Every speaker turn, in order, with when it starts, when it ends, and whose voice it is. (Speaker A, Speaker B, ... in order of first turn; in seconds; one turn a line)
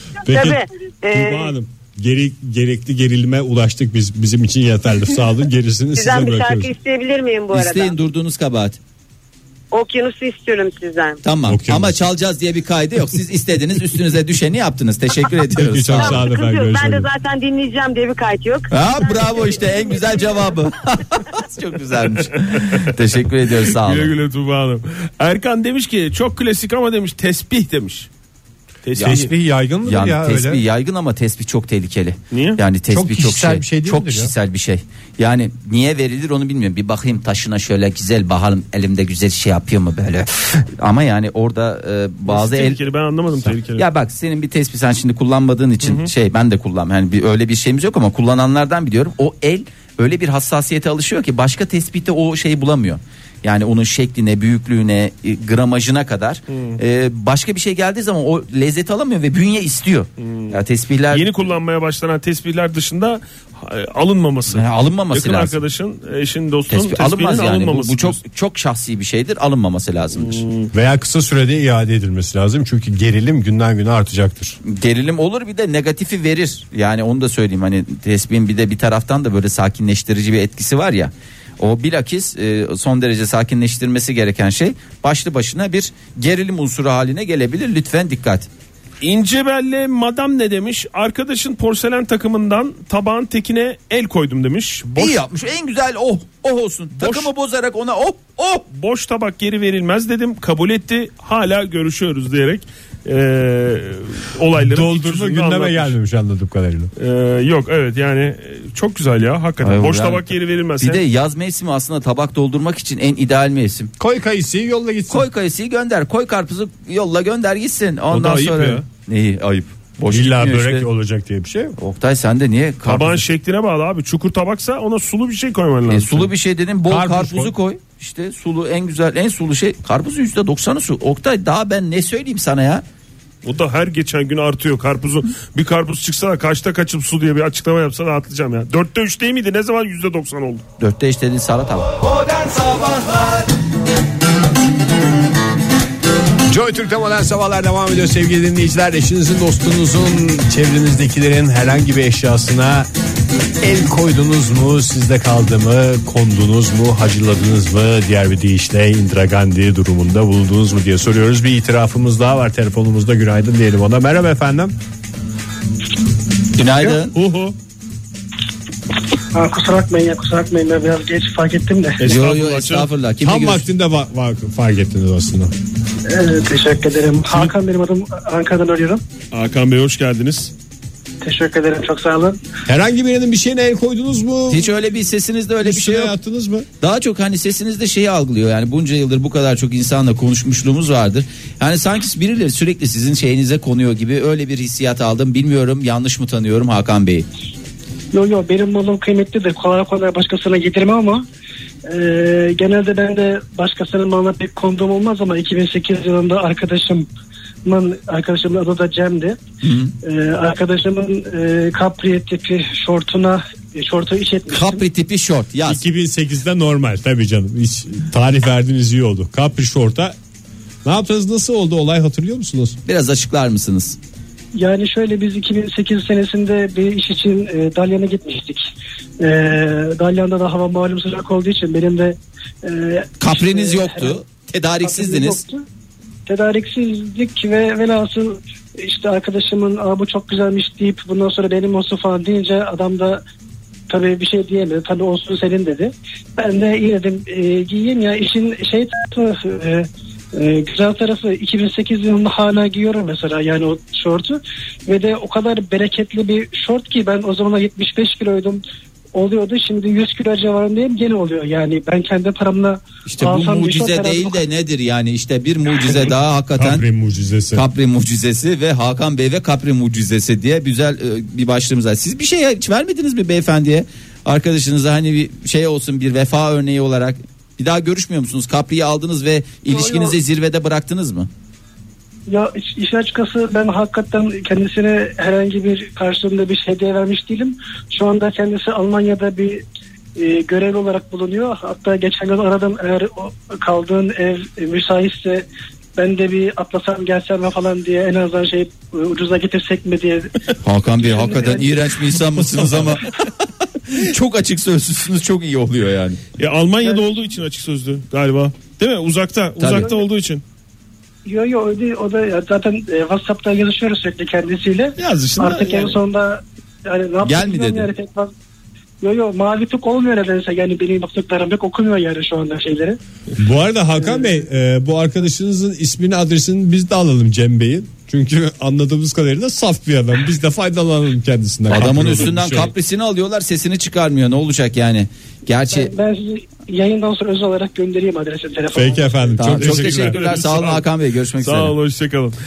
Speaker A: 0.2-6.7
Speaker B: 0.3-1.5
Speaker B: 6.0-8.0
Speaker C: 7.5-8.8
Speaker B: 9.7-11.2
Speaker C: 11.2-16.3
Speaker A: 11.5-12.1
Speaker A: 15.6-17.1
Speaker B: 16.0-20.1
Speaker C: 18.7-24.1
Speaker D: 22.3-22.9
Speaker D: 23.6-28.1
Speaker D: 28.8-29.3
Speaker C: 29.0-29.2
Speaker A: 29.0-30.6
Speaker C: 29.8-42.8
Speaker D: 32.3-32.6
Speaker A: 32.9-34.3
Speaker D: 42.3-43.9
Speaker C: 43.8-61.4
Speaker D: 45.8-46.1
Speaker D: 56.5-56.8
Speaker D: 60.2-60.6
Speaker D: 61.1-68.2
Speaker C: 64.5-65.6
Speaker C: 66.7-70.5
Speaker D: 70.2-70.7
Speaker A: 70.7-74.6
Speaker C: 74.6-88.5
Speaker D: 89.0-95.2
Speaker C: 95.0-98.7
Speaker D: 97.0-97.3
Speaker D: 98.7-105.9
Speaker A: 104.6-106.9
Speaker D: 107.0-111.0
Speaker C: 109.6-113.9
Speaker A: 114.0-115.3
Speaker C: 115.1-120.9
Speaker D: 118.1-118.8
Speaker A: 120.1-121.8
Speaker C: 121.8-123.2
Speaker D: 122.8-126.3
Speaker C: 125.9-132.8
Speaker A: 126.9-127.5
Speaker D: 133.4-140.6
Speaker C: 140.8-142.0
Speaker A: 146.5-152.9
Speaker A: 153.6-164.8
Speaker C: 166.6-167.2
Speaker D: 167.1-167.6
Speaker E: 169.3-172.0
Speaker D: 172.0-172.9
Speaker C: 172.1-173.7
Speaker A: 173.2-175.5
Speaker E: 176.1-179.0
Speaker D: 179.3-180.5
Speaker E: 181.2-182.4
Speaker A: 182.7-184.7
Speaker C: 184.5-186.2
Speaker A: 185.6-186.7
Speaker C: 186.8-197.3
Speaker E: 198.1-201.2
Speaker E: 201.9-207.1
Speaker E: 207.7-209.4
Speaker C: 209.6-209.9
Speaker E: 210.0-214.8
Speaker C: 214.5-215.8
Speaker A: 215.7-220.2
Speaker A: 220.8-222.8
Speaker C: 222.9-224.0
Speaker E: 224.6-234.2
Speaker C: 233.2-235.4
Speaker E: 234.8-235.7
Speaker E: 236.3-243.2
Speaker E: 243.9-258.6
Speaker E: 259.1-264.4
Speaker C: 263.1-266.9
Speaker A: 266.6-267.6
Speaker C: 267.5-281.3
Speaker E: 279.7-280.2
Speaker E: 282.3-289.6
Speaker E: 290.2-295.5
Speaker E: 296.0-300.4
Speaker C: 300.6-303.2
Speaker E: 300.9-301.9
Speaker C: 303.8-306.2
Speaker D: 306.4-310.4
Speaker C: 309.6-309.9
Speaker E: 311.3-318.3
Speaker D: 315.0-316.0
Speaker C: 317.2-317.9
Speaker E: 319.0-323.0
Speaker A: 323.4-332.7
Speaker C: 331.7-335.9
Speaker E: 335.7-339.3
Speaker A: 338.7-340.2
Speaker C: 339.4-341.8
Speaker D: 339.5-340.9
Speaker D: 341.4-342.4